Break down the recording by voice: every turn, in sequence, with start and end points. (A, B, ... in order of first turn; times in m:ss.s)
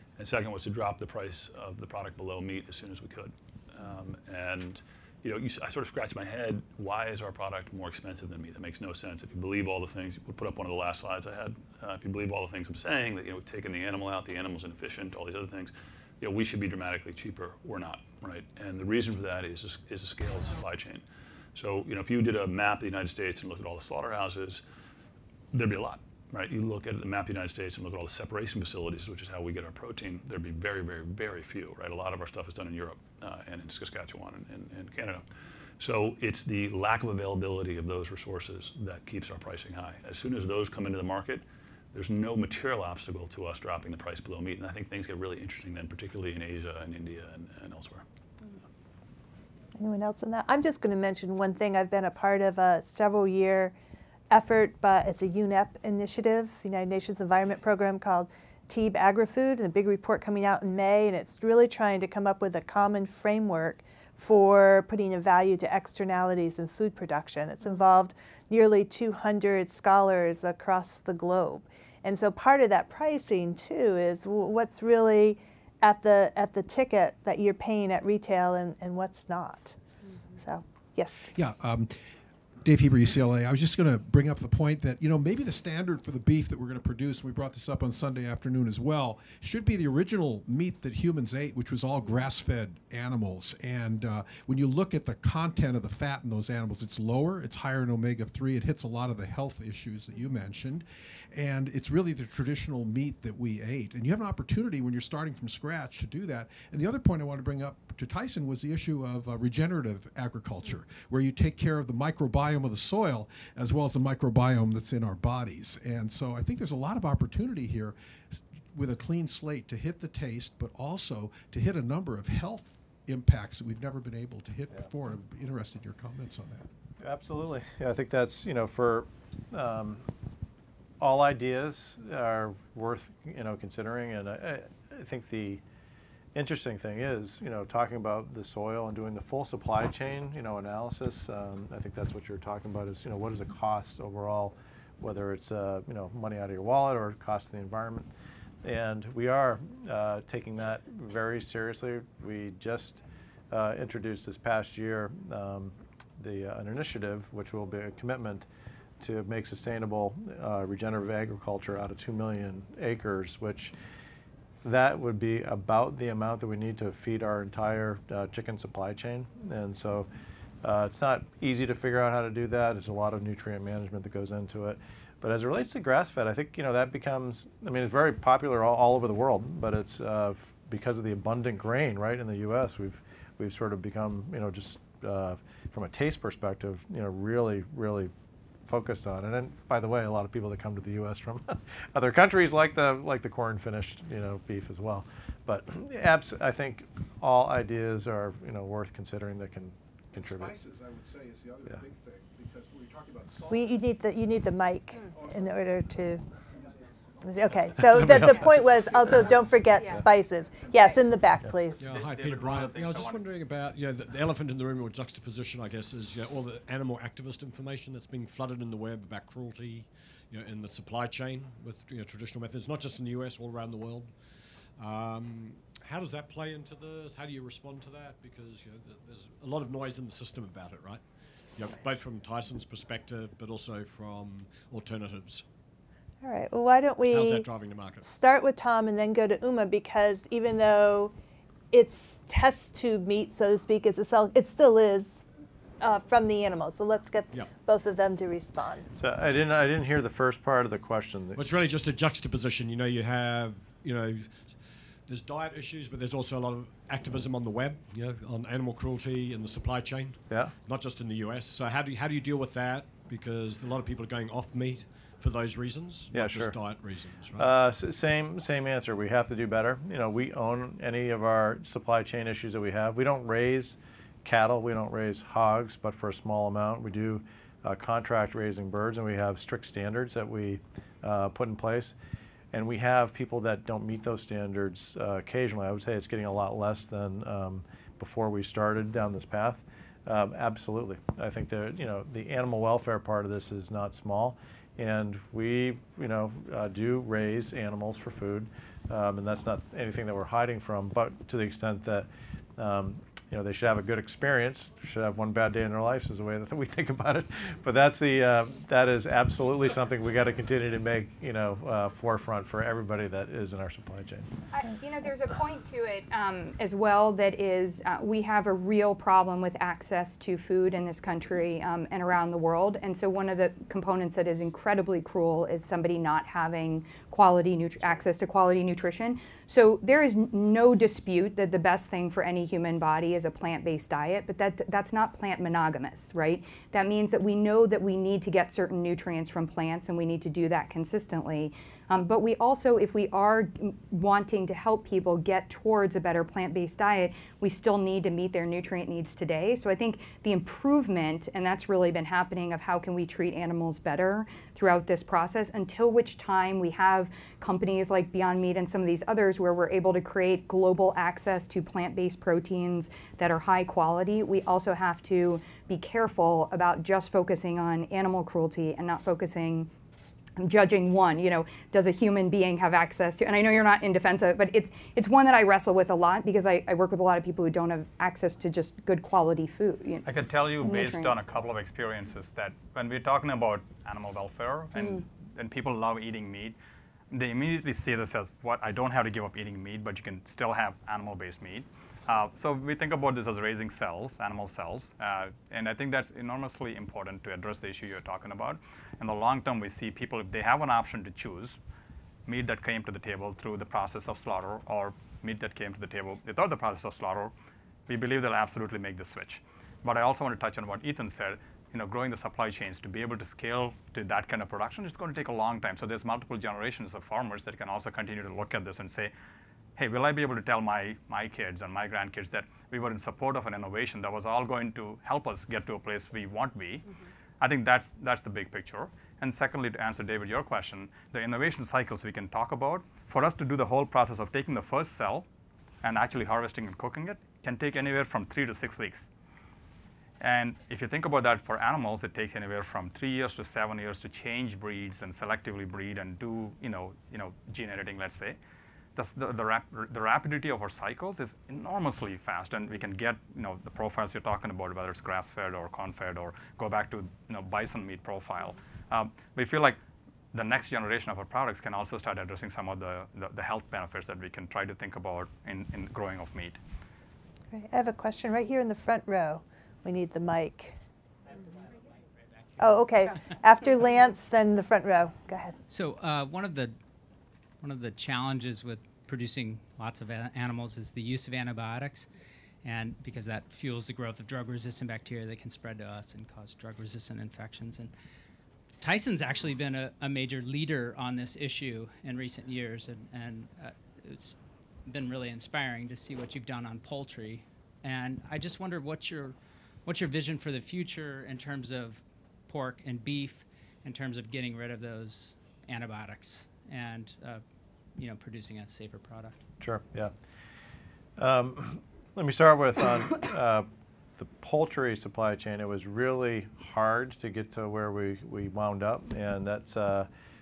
0:00.2-0:24.6 A
0:25.5-0:35.2 A
0:35.8-0:48.0 A
0:49.8-0:53.7 B
0:54.3-1:19.8 B
1:20.4-1:21.3 B
1:21.3-2:06.7 C
2:07.0-2:10.1 D
2:11.0-2:15.6 D
2:16.3-2:28.1 D
2:28.6-2:38.5 D
2:39.0-2:43.7 D
2:44.6-2:50.1 D
2:50.6-3:08.1 D
3:08.7-3:20.6 D
3:20.2-3:23.7 E
3:23.5-3:26.2 B
3:25.1-3:25.5 E
3:26.5-3:26.8 E
3:27.2-3:31.8 B
3:27.8-3:29.0 D
3:31.8-3:44.2 F
3:31.9-3:33.2 G
3:44.8-3:55.4 F
3:56.2-3:57.5 B
3:57.1-3:58.1 F
3:58.0-4:01.1 B
4:01.7-4:05.2 B
4:05.8-4:08.9 B
4:08.9-4:11.4 D
4:11.4-4:27.5 F
4:20.3-4:20.5 D
4:26.1-4:26.6 D
4:27.3-4:41.9 D
4:42.5-5:14.3 D
5:14.5-6:09.7 H
6:10.4-6:21.1 H
6:20.0-6:26.6 G
6:27.1-6:41.6 G
6:42.3-6:47.3 G
6:47.9-6:59.1 G
6:59.8-7:15.2 G
7:15.8-7:19.1 G
7:20.2-7:28.4 G
7:29.0-7:39.8 G
7:40.3-7:46.6 G
7:47.5-7:50.7 B
7:52.6-7:55.5 B
7:55.7-7:56.8 I
7:57.6-8:02.1 I
8:02.6-8:07.9 I
8:08.8-8:27.4 I
8:27.9-8:29.4 I
8:29.6-8:30.1 D
8:31.2-8:33.7 D
8:34.2-8:40.1 D